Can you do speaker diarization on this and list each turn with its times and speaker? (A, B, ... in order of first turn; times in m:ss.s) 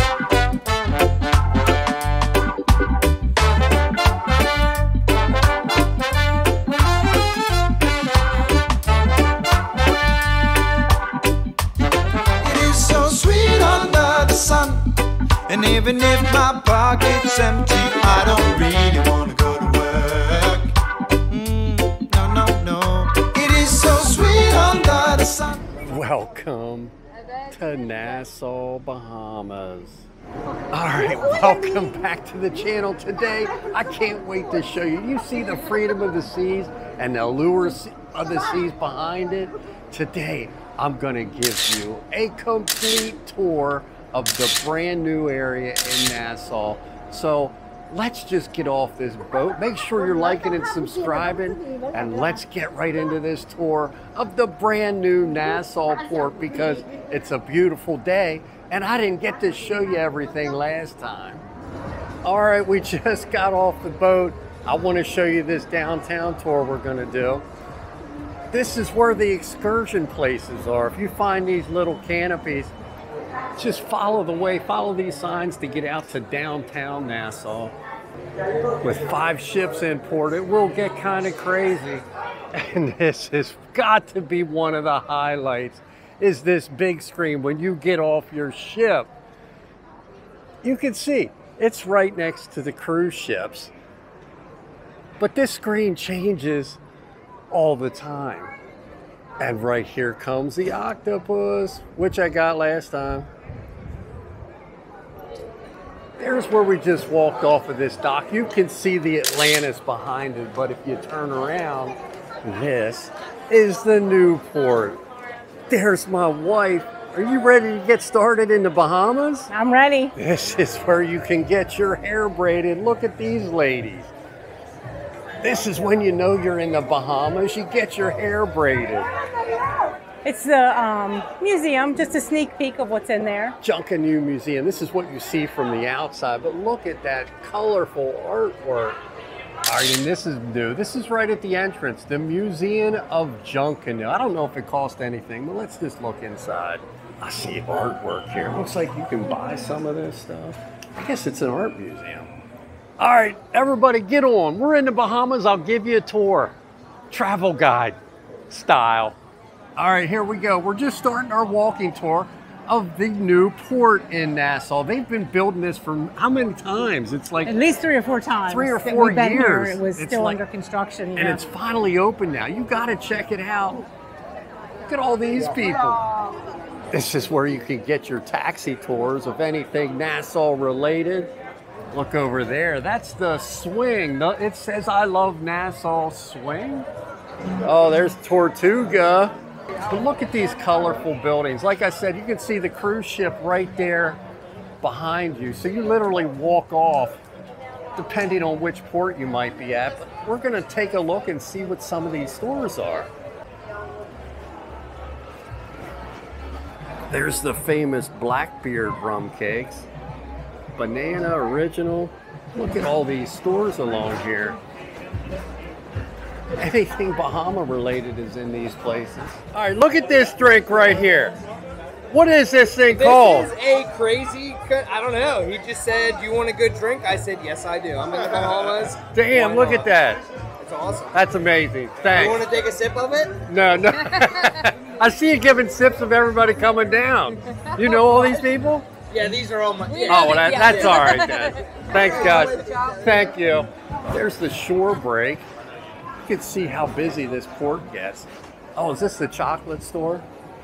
0:12.4-0:14.9 A
0:15.5-0:20.7 A
0:21.3-0:25.7 A
0:25.8-0:26.9 B
0:27.5-0:30.1 B
0:30.7-1:01.4 B
1:02.2-1:07.4 B
1:08.5-1:12.7 B
1:13.6-1:17.7 B
1:18.8-1:29.1 B
1:30.6-1:33.7 B
1:35.2-1:36.8 B
1:37.5-1:38.5 B
1:39.4-1:43.3 B
1:46.2-1:55.0 B
1:55.7-1:59.5 B
1:59.5-2:00.1 C
2:00.2-2:04.1 B
2:05.4-2:09.1 B
2:10.2-2:13.6 C
2:13.6-2:19.0 B
2:19.6-2:32.3 B
2:33.0-2:36.6 B
2:37.1-2:38.0 B
2:38.5-2:39.2 B
2:39.8-2:47.6 B
2:47.4-2:51.4 C
2:48.5-2:50.4 B
2:51.2-2:53.9 B
2:54.8-2:56.0 B
2:56.9-3:01.3 B
3:01.9-3:06.9 B
3:07.6-3:09.3 B
3:09.8-3:14.2 B
3:14.8-3:17.2 B
3:17.9-3:23.1 B
3:27.1-3:29.9 B
3:30.7-3:34.6 B
3:36.6-3:41.4 B
3:42.1-3:43.5 B
3:42.9-3:49.9 D
3:49.1-3:50.2 B
3:50.6-3:51.2 D
3:51.1-3:52.4 B
3:52.0-3:53.4 D
3:53.4-3:58.9 B
3:59.1-4:01.4 D
4:00.1-4:05.4 B
4:01.9-4:02.9 D
4:06.2-4:10.2 B